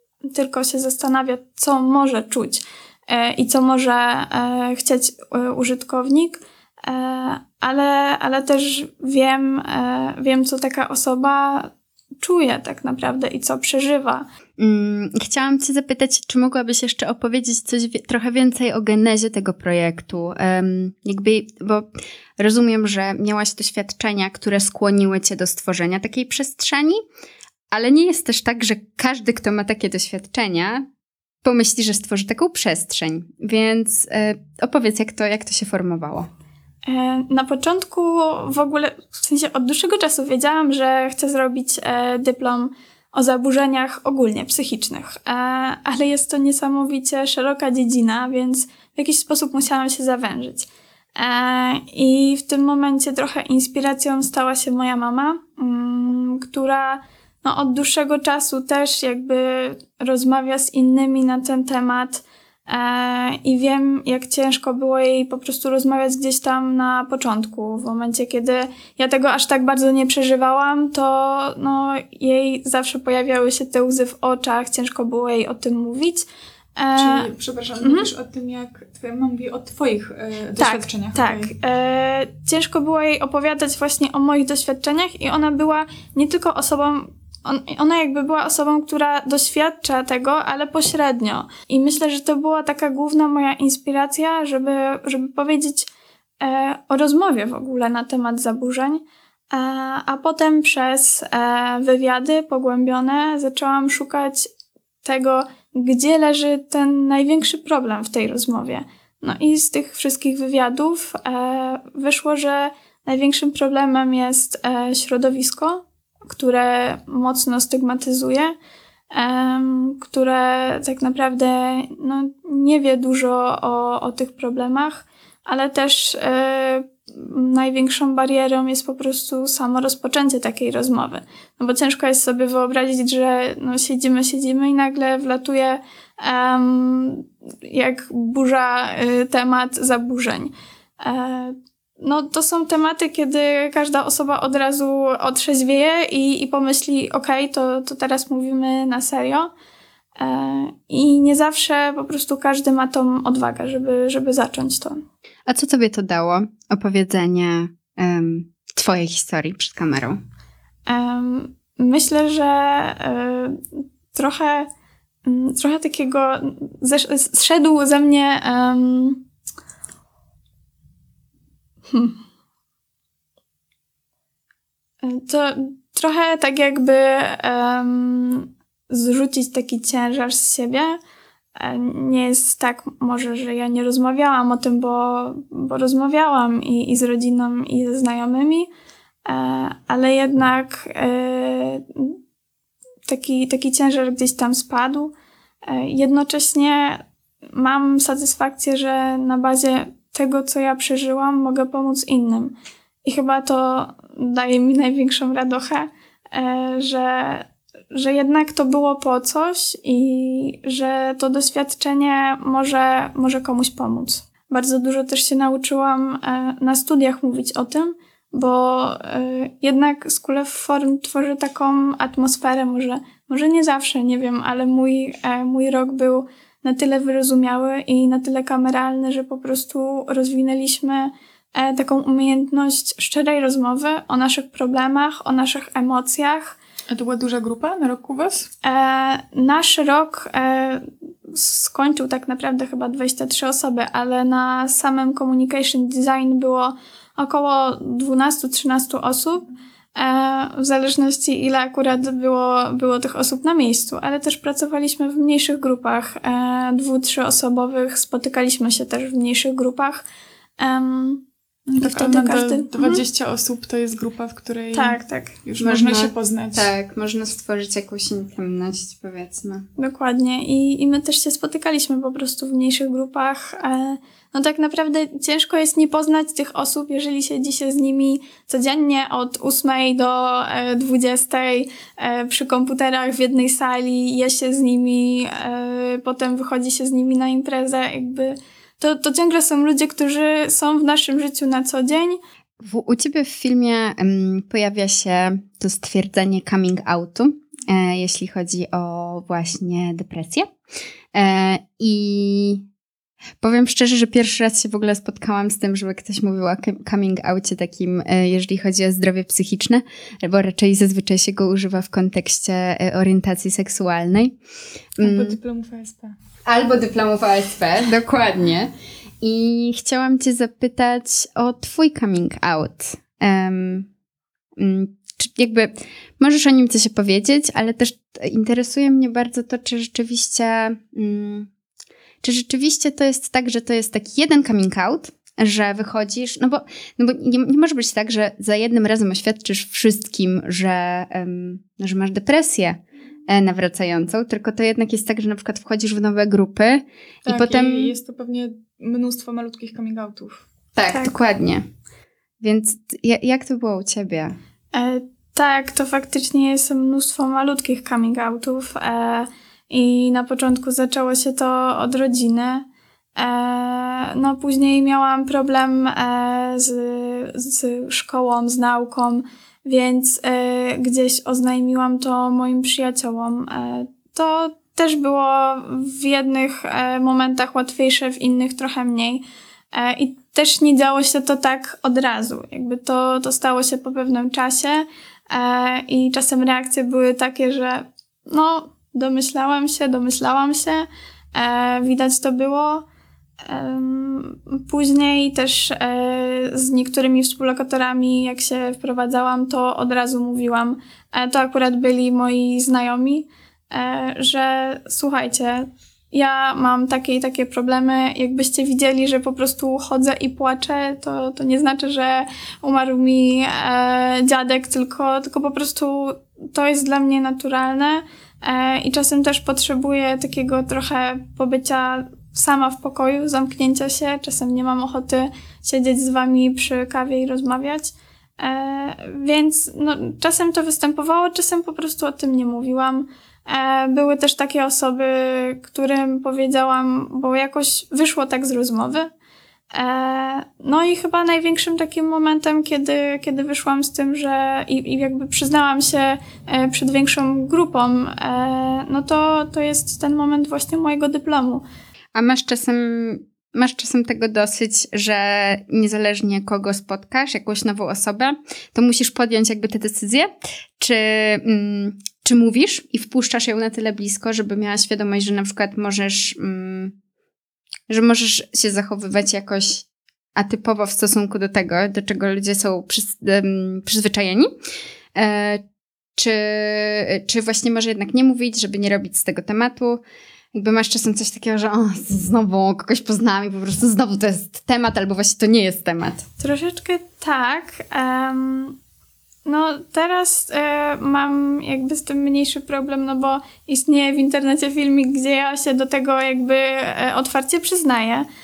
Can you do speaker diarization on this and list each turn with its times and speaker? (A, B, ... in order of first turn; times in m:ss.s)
0:00.3-0:14.2 A
0:14.6-0:27.0 B
0:27.7-0:30.8 B
0:31.4-0:36.3 B
0:36.8-1:16.2 A
1:16.8-1:17.3 A
1:17.0-1:21.5 C
1:17.8-1:18.1 A
1:20.6-1:35.9 A
1:36.4-1:44.4 A
1:45.0-1:58.5 A
1:59.1-2:29.5 A
2:30.2-2:35.0 A
2:35.5-2:40.2 B
2:40.9-2:44.7 A
2:45.2-2:49.2 A
2:51.9-2:52.2 A
2:55.0-3:01.0 A
3:01.6-3:08.7 A
3:09.2-3:12.2 A
3:13.1-3:15.1 A
3:15.7-3:56.6 A
3:56.9-3:58.5 C
3:58.6-4:20.0 A
4:20.6-4:21.2 A
4:21.7-4:26.7 C
4:21.8-4:23.0 A
4:24.7-4:25.4 A
4:25.6-4:29.6 B
4:29.8-4:52.2 A
4:52.6-5:00.5 B
5:01.1-5:02.6 B
5:03.4-5:14.4 B
5:15.0-5:15.4 B
5:15.0-5:16.1 C
5:16.4-5:18.7 B
5:19.2-5:23.9 B
5:24.6-5:31.5 B
5:32.2-5:47.9 B
5:47.2-5:50.4 C
5:50.7-5:51.6 B
5:52.4-5:54.3 B
5:54.7-6:32.8 A
6:33.4-7:19.1 A
7:19.7-7:31.6 A
7:32.1-7:40.3 B
7:40.8-7:46.9 B
7:47.9-7:54.5 B
7:55.2-7:55.6 B
7:56.2-8:00.0 B
8:00.5-8:06.2 B
8:06.4-8:08.8 A
8:09.4-8:18.2 A